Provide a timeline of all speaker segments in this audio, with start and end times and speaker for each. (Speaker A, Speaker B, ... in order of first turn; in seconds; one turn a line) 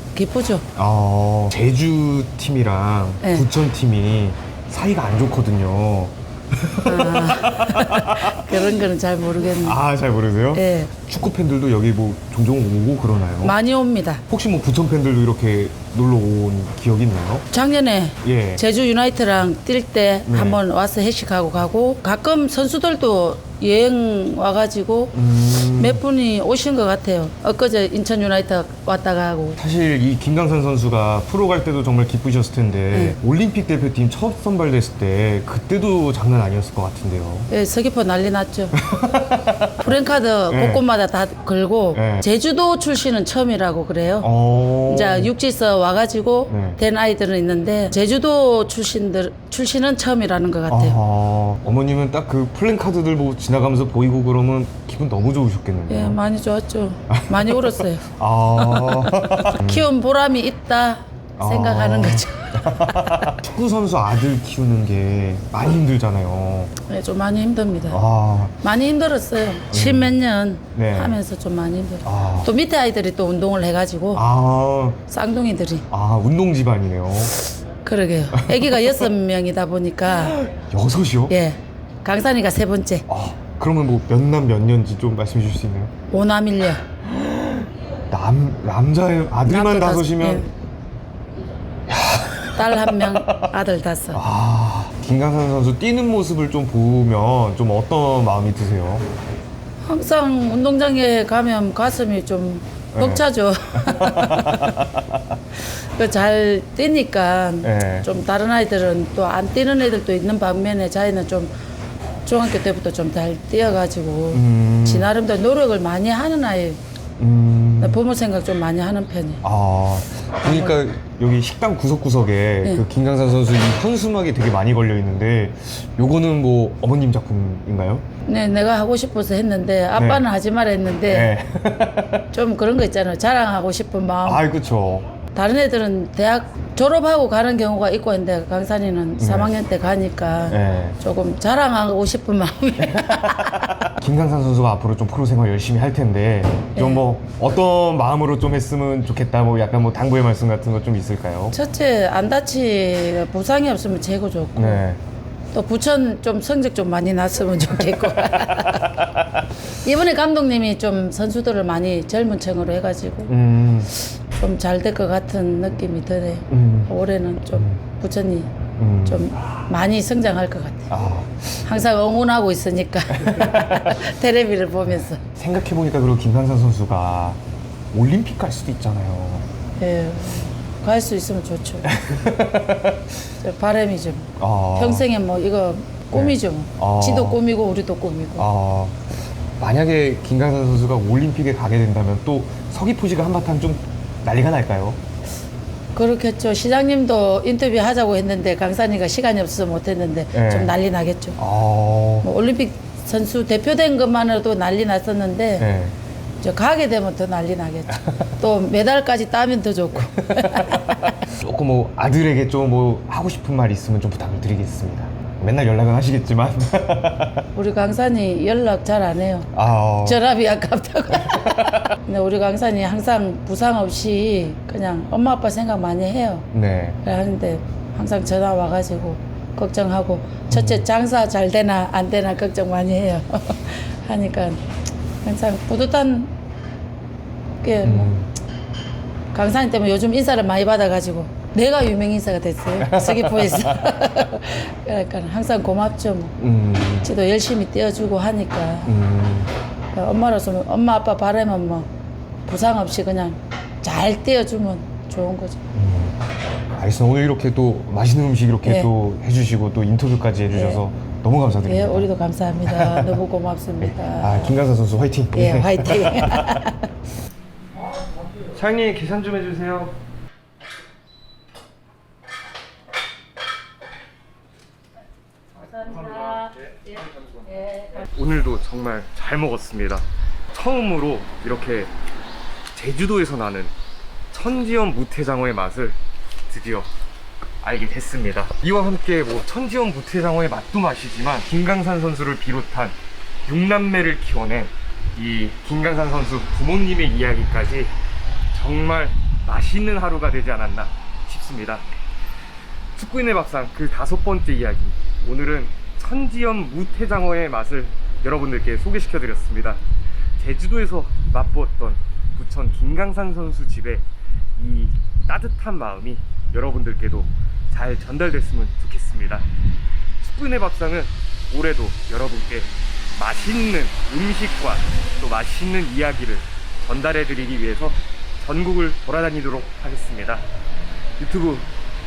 Speaker A: 0.1-0.6
Speaker B: 0.7-8.8
Speaker A: 3.2-3.5
Speaker A: 6.8-9.8
Speaker B: 9.4-13.6
Speaker A: 10.5-10.9
Speaker A: 13.4-14.2
Speaker B: 14.3-17.4
Speaker A: 17.5-29.6
Speaker B: 18.2-18.6
Speaker B: 20.2-20.6
Speaker B: 25.1-26.0
Speaker B: 29.6-37.5
Speaker A: 32.9-33.2
Speaker A: 37.5-38.8
Speaker B: 38.8-40.0
Speaker A: 39.8-44.3
Speaker B: 40.5-40.8
Speaker B: 41.9-42.2
Speaker B: 44.2-45.3
Speaker A: 44.9-51.0
Speaker B: 46.5-46.8
Speaker B: 50.7-56.2
Speaker A: 55.9-63.3
Speaker B: 57.1-59.9
Speaker B: 61.4-66.7
Speaker A: 66.8-68.0
Speaker B: 67.9-68.5
Speaker A: 68.6-74.2
Speaker B: 69.7-70.2
Speaker B: 70.7-71.2
Speaker B: 72.0-72.5
Speaker B: 74.1-75.0
Speaker A: 75.1-75.8
Speaker B: 75.9-77.3
Speaker A: 77.6-80.5
Speaker B: 78.3-79.1
Speaker B: 80.5-81.3
Speaker A: 81.3-83.1
Speaker B: 83.1-85.9
Speaker A: 86.1-86.8
Speaker B: 87.0-90.5
Speaker A: 89.4-90.5
Speaker B: 91.9-93.5
Speaker A: 92.6-94.2
Speaker B: 94.1-99.0
Speaker A: 99.8-104.9
Speaker B: 102.9-105.0
Speaker A: 105.5-111.5
Speaker B: 107.6-108.1
Speaker A: 112.2-116.8
Speaker B: 114.3-115.1
Speaker B: 117.2-118.0
Speaker A: 117.8-119.4
Speaker B: 119.4-128.0
Speaker A: 120.4-120.8
Speaker A: 128.2-131.3
Speaker B: 129.9-130.2
Speaker B: 131.1-132.3
Speaker A: 132.3-134.4
Speaker B: 134.2-135.1
Speaker A: 135.3-143.8
Speaker B: 139.2-139.5
Speaker B: 140.5-141.0
Speaker B: 142.8-151.6
Speaker A: 146.7-147.0
Speaker A: 151.5-154.8
Speaker B: 154.5-155.0
Speaker A: 155.5-159.0
Speaker B: 157.6-159.2
Speaker A: 159.8-163.3
Speaker B: 163.3-163.9
Speaker A: 163.9-168.5
Speaker B: 166.5-166.9
Speaker B: 167.5-167.8
Speaker B: 168.8-169.3
Speaker A: 169.1-170.9
Speaker B: 170.9-171.6
Speaker A: 171.6-175.2
Speaker B: 173.1-174.0
Speaker B: 175.2-177.4
Speaker B: 177.9-179.4
Speaker A: 179.8-181.9
Speaker B: 181.8-183.1
Speaker A: 183.4-188.5
Speaker B: 184.4-185.1
Speaker B: 186.1-187.4
Speaker B: 188.4-189.0
Speaker B: 189.6-195.0
Speaker A: 195.9-201.4
Speaker B: 200.3-200.7
Speaker B: 201.4-202.3
Speaker A: 202.2-205.7
Speaker B: 205.6-205.9
Speaker A: 206.4-211.2
Speaker B: 208.0-208.3
Speaker B: 210.2-217.5
Speaker A: 217.5-219.5
Speaker B: 219.5-220.2
Speaker A: 220.0-226.5
Speaker B: 221.2-221.9
Speaker B: 226.5-227.0
Speaker A: 227.0-234.6
Speaker B: 230.5-230.8
Speaker A: 235.2-236.3
Speaker A: 237.6-238.1
Speaker B: 237.8-238.3
Speaker A: 239.3-246.4
Speaker B: 242.8-243.9
Speaker B: 246.4-247.1
Speaker A: 247.0-248.9
Speaker B: 248.8-249.5
Speaker A: 249.9-251.9
Speaker A: 252.4-255.6
Speaker B: 255.7-256.2
Speaker B: 256.8-262.1
Speaker A: 258.6-258.9
Speaker A: 260.5-260.8
Speaker A: 261.6-264.6
Speaker B: 262.6-263.2
Speaker B: 263.8-266.6
Speaker A: 265.3-266.9
Speaker B: 268.4-270.0
Speaker B: 275.8-277.0
Speaker A: 275.8-276.4
Speaker A: 277.5-277.8
Speaker B: 277.8-281.9
Speaker B: 282.7-283.7
Speaker B: 284.3-286.9
Speaker B: 287.6-297.9
Speaker B: 298.5-301.9
Speaker B: 302.9-309.8
Speaker B: 310.4-314.1
Speaker B: 314.6-319.5
Speaker B: 320.2-330.4
Speaker B: 331.2-331.7